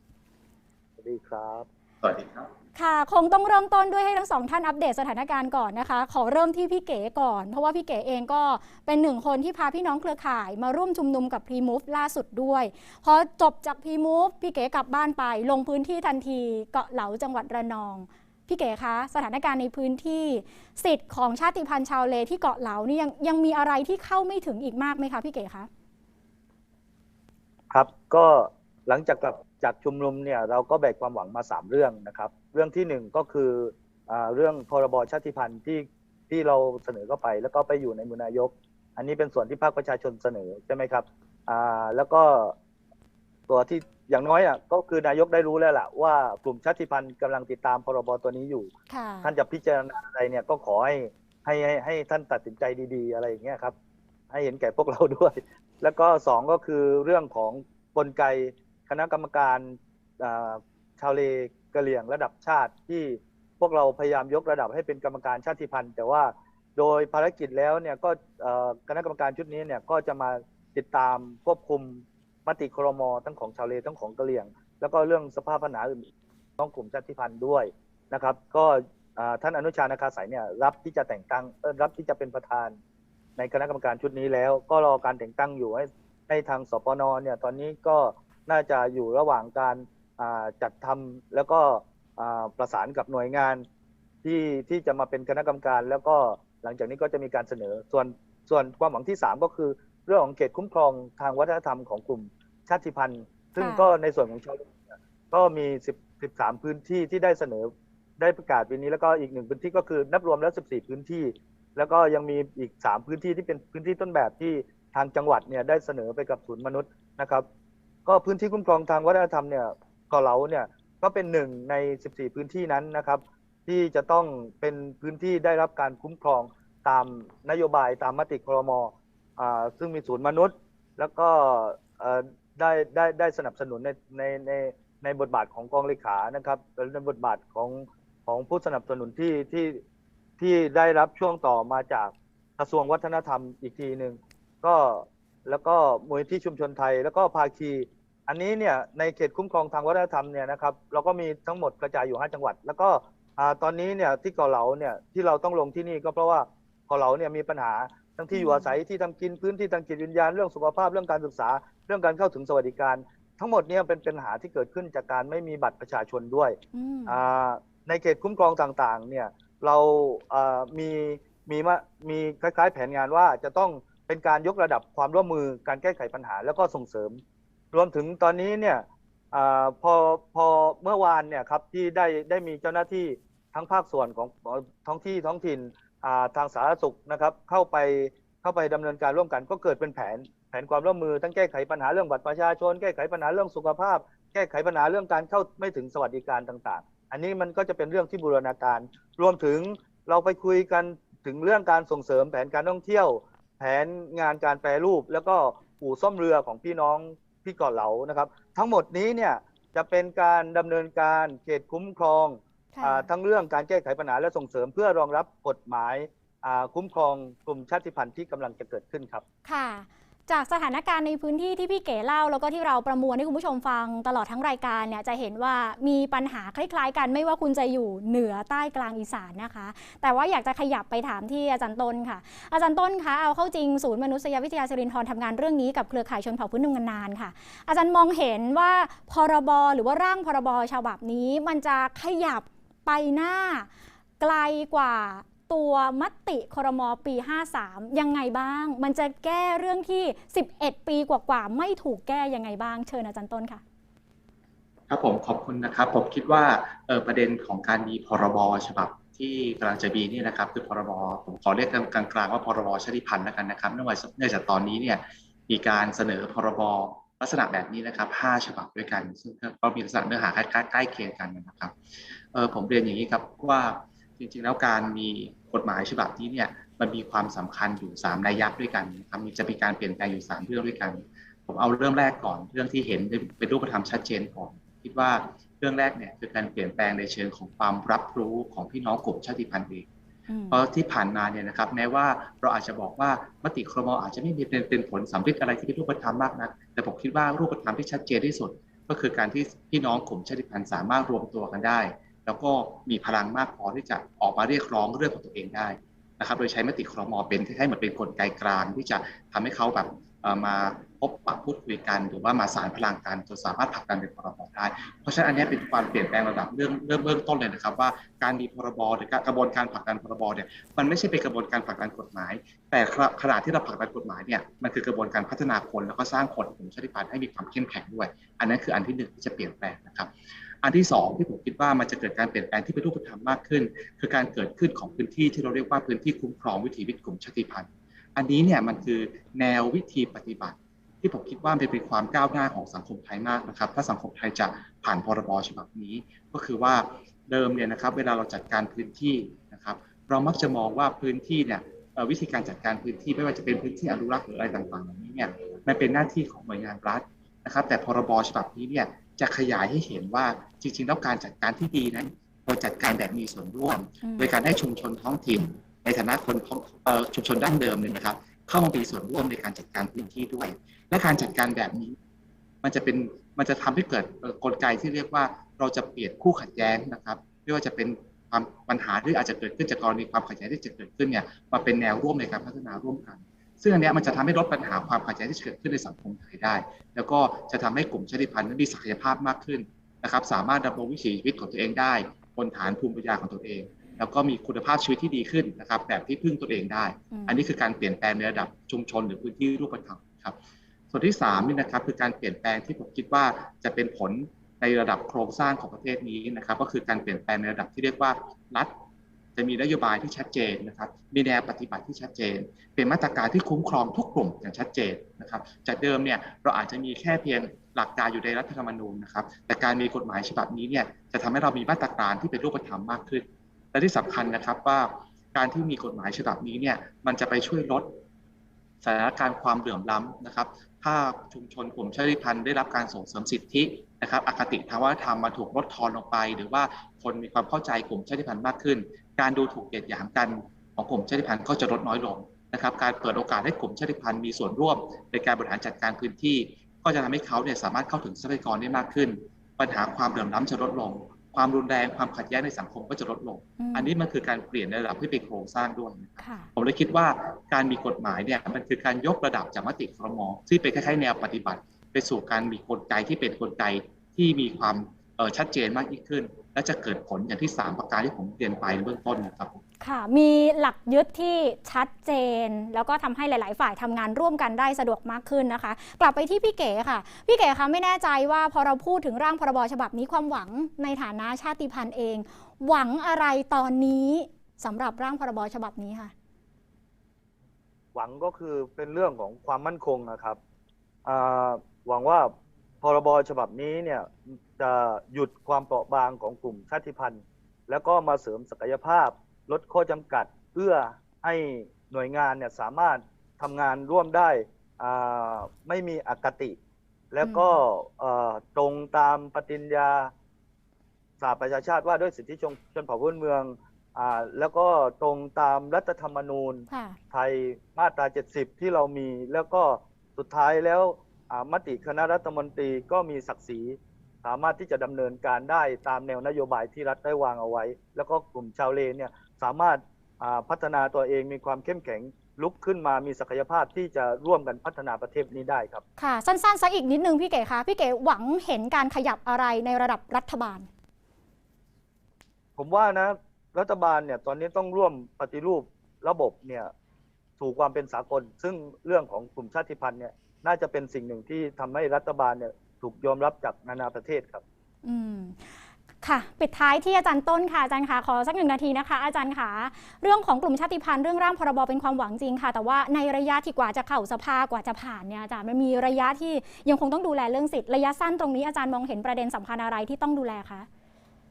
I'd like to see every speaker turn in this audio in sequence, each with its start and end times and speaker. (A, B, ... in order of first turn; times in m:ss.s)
0:01.0-0:01.7 A
0:02.0-0:02.5 B
0:02.8-0:25.7 C
0:27.7-0:42.6 A
0:43.5-0:48.7 A
0:48.9-0:49.3 C
0:49.2-0:53.7 A
0:54.3-1:22.8 A
1:23.4-1:33.6 A
1:34.2-1:57.5 A
1:43.6-1:43.9 C
1:58.1-2:19.8 A
2:20.4-3:39.2 A
2:38.3-2:38.8 C
2:46.7-2:47.2 C
3:32.7-3:33.1 C
3:39.5-4:03.7 C
4:04.2-4:13.6 C
4:14.9-4:31.7 B
4:32.3-4:49.9 B
4:50.3-4:50.6 C
4:50.5-5:30.1 B
5:30.6-6:12.0 B
6:04.0-6:04.3 C
6:12.6-6:40.4 B
6:37.1-6:37.4 C
6:40.9-6:48.8 B
6:49.4-7:08.0 B
7:08.8-7:49.6 B
7:33.6-7:33.9 C
7:36.2-7:36.5 C
7:49.8-8:06.1 C
8:08.0-8:10.4 A
8:11.0-8:26.6 A
8:27.1-8:30.1 A
8:27.2-8:27.6 C
8:31.2-8:55.8 A
8:36.7-8:37.0 C
8:56.0-9:00.7 C
9:02.6-9:06.7 A
9:07.4-9:14.4 A
9:14.8-9:30.7 C